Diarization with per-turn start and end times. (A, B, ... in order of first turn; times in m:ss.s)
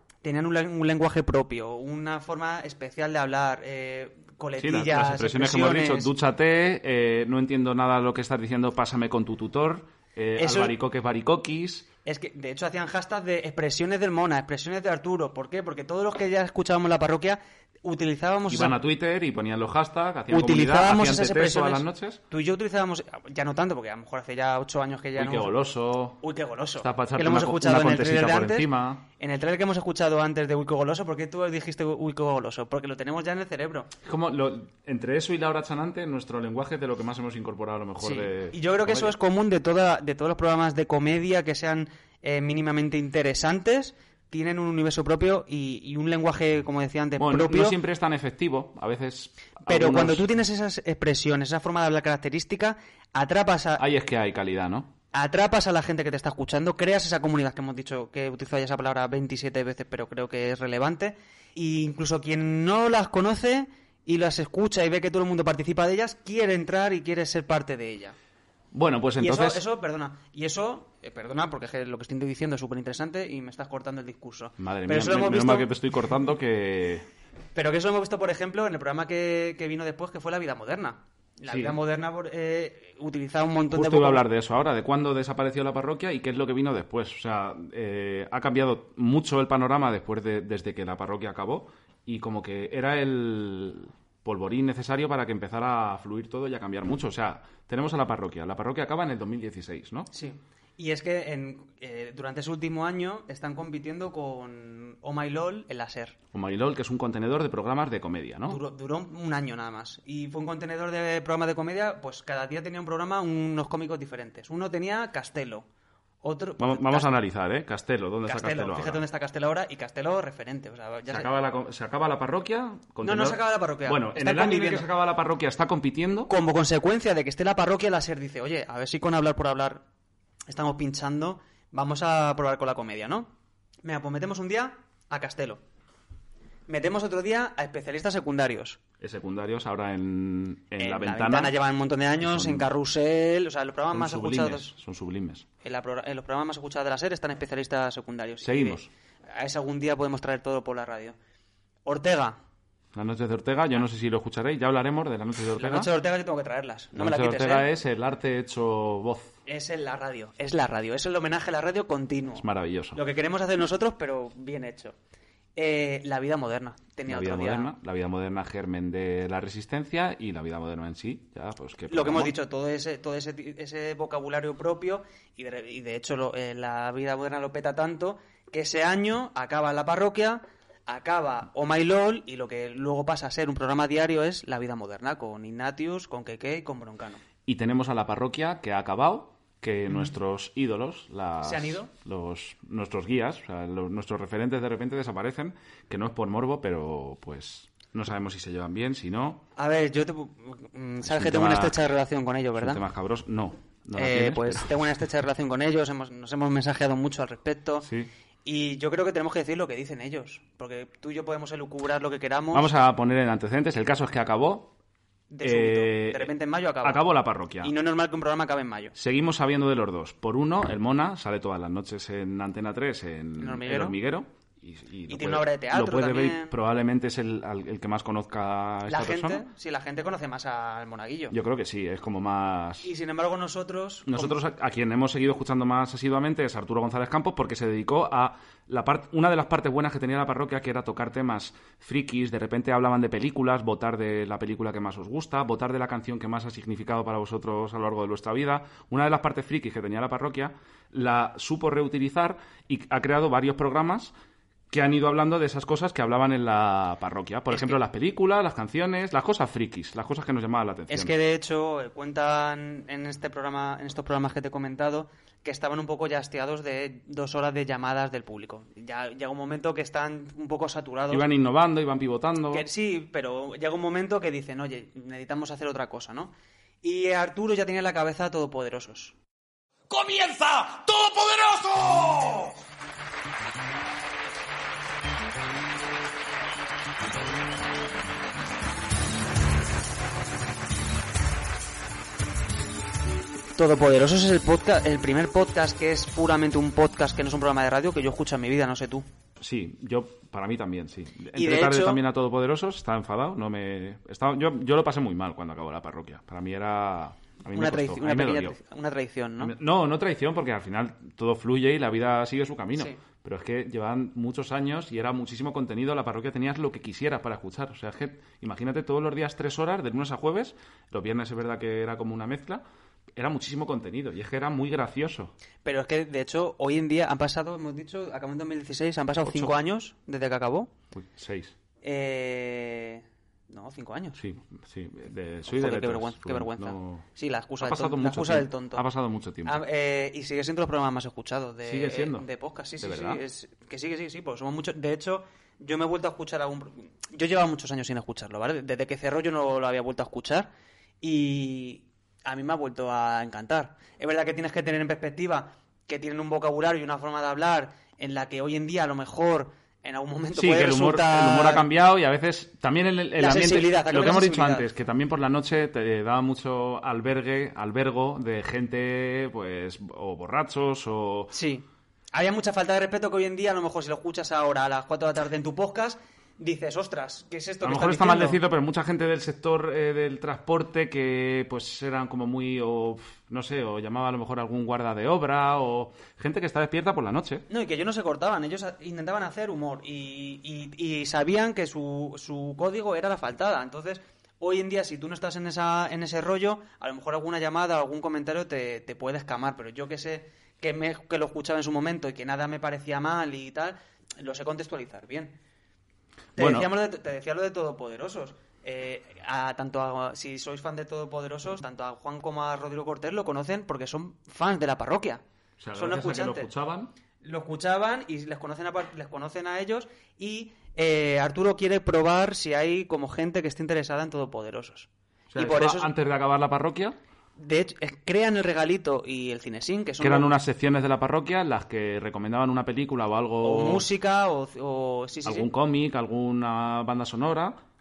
0:00.2-0:06.1 A
0:04.6-0:11.9 B
0:10.4-0:10.7 A
0:12.0-0:18.8 A
0:18.5-0:22.2 B
0:20.3-0:25.5 A
0:25.2-0:26.2 B
0:26.2-0:28.7 A
0:26.8-0:29.0 B
0:29.2-0:33.9 A
0:34.0-0:39.2 B
0:38.0-0:47.8 A
0:47.2-0:50.3 B
0:49.7-0:53.8 A
0:53.8-0:54.9 B
0:55.1-1:08.2 A
1:08.7-1:09.6 B
1:09.2-1:15.7 A
1:14.6-1:17.1 B
1:17.6-1:24.2 A
1:21.5-1:21.8 B
1:23.7-1:40.1 B
1:40.1-1:46.2 A
1:46.3-1:48.6 B
1:48.5-1:55.6 A
1:56.2-1:57.1 A
1:56.6-1:59.0 B
1:58.2-2:01.3 A
2:01.1-2:06.3 B
2:03.0-2:04.9 A
2:06.3-2:09.8 A
2:10.5-2:13.3 A
2:13.8-2:15.6 A
2:16.7-2:18.8 A
2:19.0-2:21.6 B
2:20.8-2:24.7 A
2:22.2-2:22.7 B
2:23.9-2:25.5 B
2:25.6-2:31.2 A
2:28.4-2:28.9 B
2:31.9-2:32.4 A
2:32.9-2:35.9 B
2:35.6-2:37.7 A
2:36.9-2:39.4 B
2:39.5-2:45.0 A
2:42.4-2:43.0 B
2:45.6-2:47.7 A
2:47.1-2:52.3 B
2:51.9-3:07.2 A
3:07.4-3:19.4 B
3:11.4-3:11.9 A
3:19.6-3:22.8 A
3:21.0-3:21.8 B
3:22.6-3:24.8 B
3:24.0-3:27.9 A
3:27.8-3:28.1 B
3:28.4-3:32.7 A
3:32.5-3:34.7 B
3:35.3-3:37.0 A
3:35.4-3:37.7 B
3:37.6-3:39.0 A
3:39.0-3:49.4 B
3:43.4-3:44.0 A
3:45.1-3:46.5 A
3:48.9-3:51.4 A
3:51.3-3:52.9 B
3:52.8-3:54.4 A
3:54.1-4:14.1 B
4:14.7-4:21.1 B
4:17.5-4:17.8 A
4:20.9-4:31.2 A
4:31.1-4:32.7 B
4:32.5-4:39.1 A
4:39.9-4:42.4 C
4:53.6-4:59.0 A
4:59.4-5:08.6 B
5:01.3-5:02.0 A
5:07.5-5:09.6 A
5:09.4-5:22.6 B
5:23.2-5:25.3 B
5:25.6-5:30.7 A
5:29.2-5:29.6 B
5:30.9-5:31.6 B
5:31.8-5:34.2 A
5:34.2-5:37.1 B
5:35.5-5:38.8 A
5:37.6-5:39.6 B
5:39.4-5:50.5 A
5:41.6-5:42.3 B
5:42.8-5:43.2 B
5:51.0-6:01.7 A
6:00.3-6:11.3 B
6:03.2-6:04.7 A
6:11.3-6:18.4 A
6:17.6-6:27.4 B
6:27.5-6:45.4 A
6:46.4-6:46.7 B
6:46.4-6:55.2 A
6:55.6-6:56.9 B
6:55.7-6:56.5 A
6:57.2-7:05.9 A
7:05.3-7:07.0 B
7:07.4-7:10.3 A
7:10.0-7:13.9 B
7:13.4-7:15.5 A
7:15.2-7:17.6 B